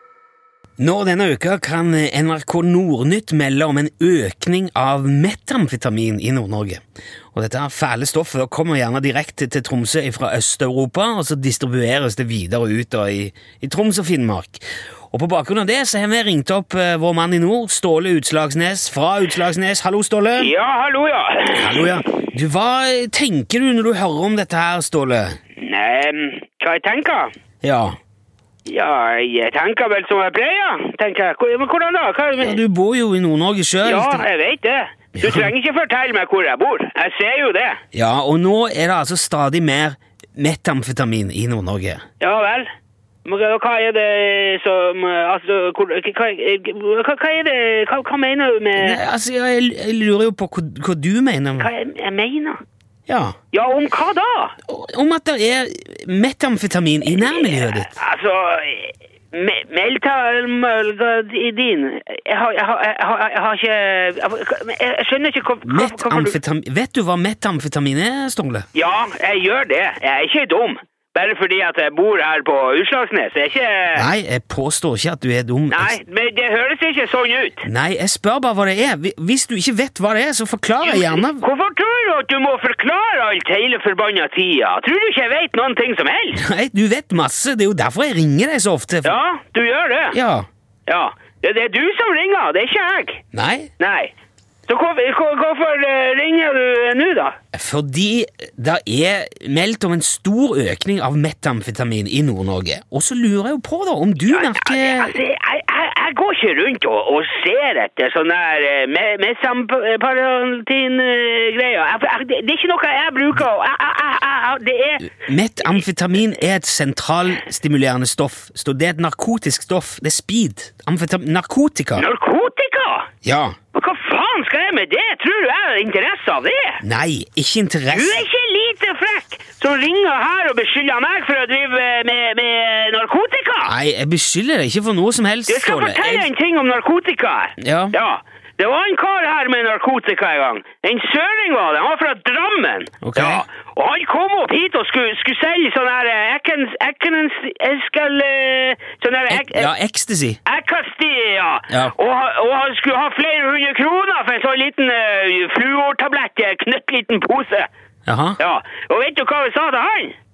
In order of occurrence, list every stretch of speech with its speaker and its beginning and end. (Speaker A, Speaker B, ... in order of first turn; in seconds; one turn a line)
Speaker A: 0.8-6.8
Speaker A: 7.3-20.5
Speaker B: 20.4-22.0
Speaker A: 21.5-25.4
Speaker B: 25.6-27.3
Speaker A: 27.6-27.9
Speaker B: 28.7-32.6
Speaker A: 32.4-34.2
Speaker B: 33.8-37.8
Speaker A: 35.1-35.5
Speaker A: 37.9-42.0
Speaker B: 42.2-42.7
Speaker B: 43.2-49.0
Speaker A: 48.8-51.7
Speaker B: 51.6-52.6
Speaker A: 53.1-53.4
Speaker B: 53.5-54.5
Speaker A: 54.7-57.9
Speaker B: 57.1-66.3
Speaker A: 65.6-68.6
Speaker B: 68.7-74.1
Speaker A: 73.9-76.0
Speaker B: 75.7-77.6
Speaker A: 77.6-81.4
Speaker B: 80.8-86.4
Speaker A: 86.3-89.1
Speaker B: 89.0-90.2
Speaker A: 90.1-90.5
Speaker B: 90.9-93.2
Speaker A: 93.3-93.7
Speaker B: 93.8-94.1
Speaker B: 94.7-97.3
Speaker A: 97.5-105.2
Speaker B: 104.2-115.8
Speaker A: 115.1-122.0
Speaker B: 122.0-123.1
Speaker A: 123.2-123.5
Speaker B: 123.7-126.8
Speaker A: 126.8-128.2
Speaker B: 127.9-133.7
Speaker A: 133.6-136.3
Speaker B: 135.5-149.7
Speaker A: 137.6-137.9
Speaker A: 143.0-143.4
Speaker A: 149.3-150.4
Speaker B: 150.4-157.7
Speaker A: 158.1-158.4
Speaker B: 158.4-160.1